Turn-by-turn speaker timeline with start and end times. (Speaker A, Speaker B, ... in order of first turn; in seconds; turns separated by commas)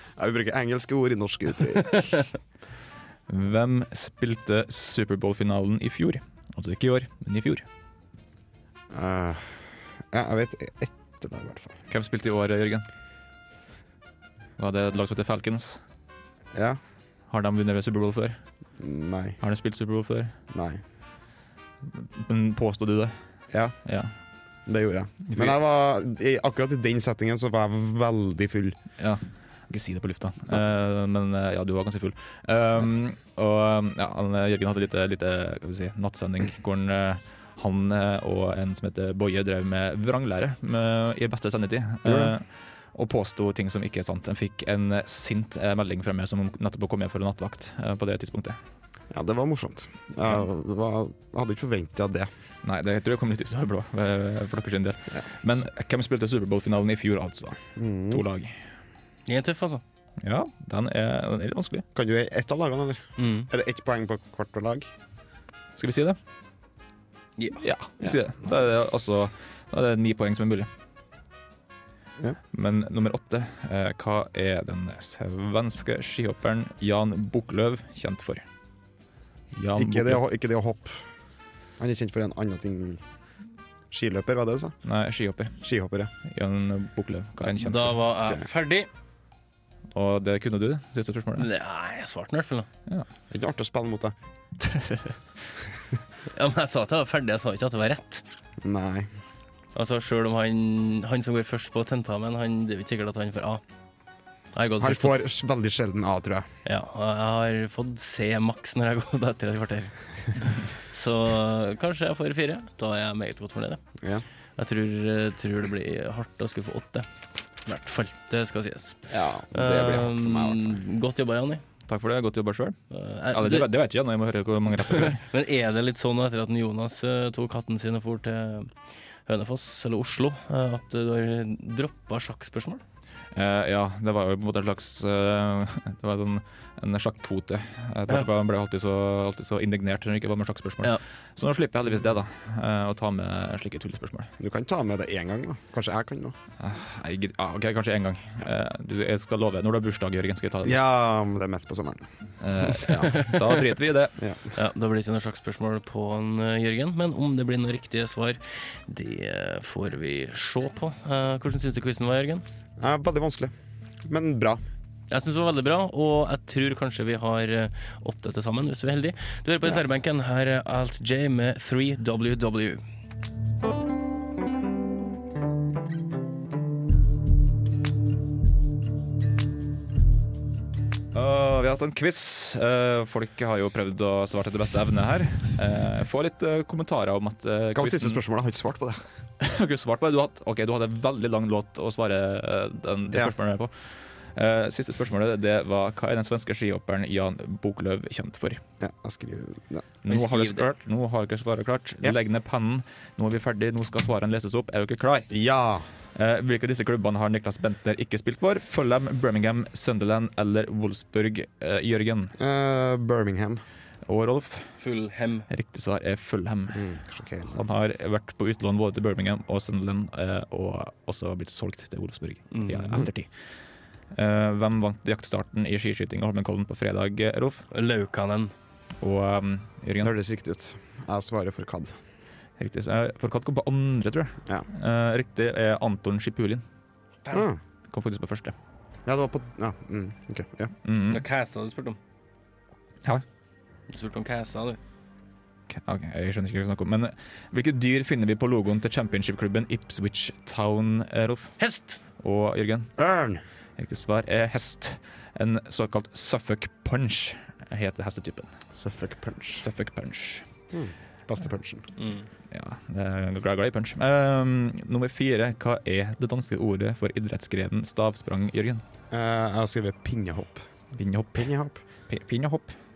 Speaker A: 0.1-2.1, Speaker B: 3.3-7.6, Speaker A: 8.9-11.8, Speaker B: 11.9-12.9, Speaker B: 14.6-15.8, Speaker A: 16.5-16.8, Speaker B: 17.3-18.4, Speaker A: 18.8-19.4, Speaker B: 19.4-20.3, Speaker A: 20.5-20.8, Speaker B: 21.8-23.2, Speaker A: 23.5-23.8, Speaker B: 23.8-24.1, Speaker A: 24.7-28.8, Speaker B: 25.3-25.6, Speaker B: 29.0-48.6, Speaker A: 42.0-42.3, Speaker A: 49.1-52.3, Speaker B: 52.6-58.5, Speaker A: 57.8-58.2, Speaker C: 59.3-59.8, Speaker B: 60.2-61.8, Speaker A: 61.9-64.9, Speaker C: 63.2-63.5, Speaker B: 65.8-66.2, Speaker C: 67.4-67.6, Speaker B: 67.6-70.7, Speaker A: 68.0-68.7, Speaker B: 72.5-78.4, Speaker B: 79.5-80.2, Speaker A: 79.8-81.0, Speaker A: 81.8-83.0, Speaker A: 83.9-84.7, Speaker B: 84.8-85.6, Speaker A: 85.6-86.1, Speaker B: 86.2-88.0, Speaker C: 87.6-88.9, Speaker B: 89.9-91.5, Speaker C: 91.4-92.7, Speaker A: 93.3-94.1, Speaker B: 94.6-95.1, Speaker C: 96.3-98.2, Speaker A: 98.6-99.1, Speaker C: 99.7-103.6, Speaker C: 104.5-105.2, Speaker A: 104.8-106.5, Speaker C: 106.6-113.8, Speaker C: 114.6-117.0, Speaker C: 117.6-121.6, Speaker A: 119.1-120.8, Speaker B: 121.9-122.8, Speaker C: 122.9-123.7, Speaker B: 123.3-125.2, Speaker C: 124.8-128.7, Speaker C: 129.2-132.8, Speaker B: 133.3-144.3, Speaker A: 144.4-146.3, Speaker B: 146.6-150.8, Speaker A: 150.6-152.0, Speaker B: 152.4-154.2, Speaker C: 153.1-153.5, Speaker C: 154.5-162.4, Speaker A: 162.8-164.6, Speaker C: 165.1-172.8, Speaker B: 181.1-188.2, Speaker A: 187.7-189.0, Speaker B: 189.4-198.6, Speaker A: 198.8-199.9, Speaker B: 200.0-205.3, Speaker C: 200.1-200.7, Speaker A: 205.3-205.8, Speaker B: 206.1-212.3, Speaker A: 212.4-213.6, Speaker B: 214.1-214.7, Speaker C: 214.8-215.5, Speaker B: 215.5-216.9, Speaker A: 216.7-217.6, Speaker B: 217.5-223.3, Speaker C: 222.5-222.9, Speaker B: 224.1-227.6, Speaker C: 227.7-228.5, Speaker B: 229.0-230.1, Speaker A: 230.0-231.9, Speaker B: 232.6-236.6, Speaker A: 237.3-237.6, Speaker B: 237.9-238.5, Speaker A: 239.1-240.7, Speaker B: 240.8-241.2, Speaker C: 241.1-242.0, Speaker C: 243.9-244.8, Speaker B: 245.7-251.6, Speaker C: 251.6-252.0, Speaker B: 252.2-252.9, Speaker A: 253.0-253.4, Speaker B: 253.8-258.5, Speaker A: 258.7-259.6, Speaker B: 259.5-260.4, Speaker A: 260.7-261.9, Speaker C: 262.0-262.3, Speaker B: 262.5-268.8, Speaker A: 269.1-270.6, Speaker B: 270.9-271.5, Speaker A: 271.3-271.8, Speaker B: 272.1-272.7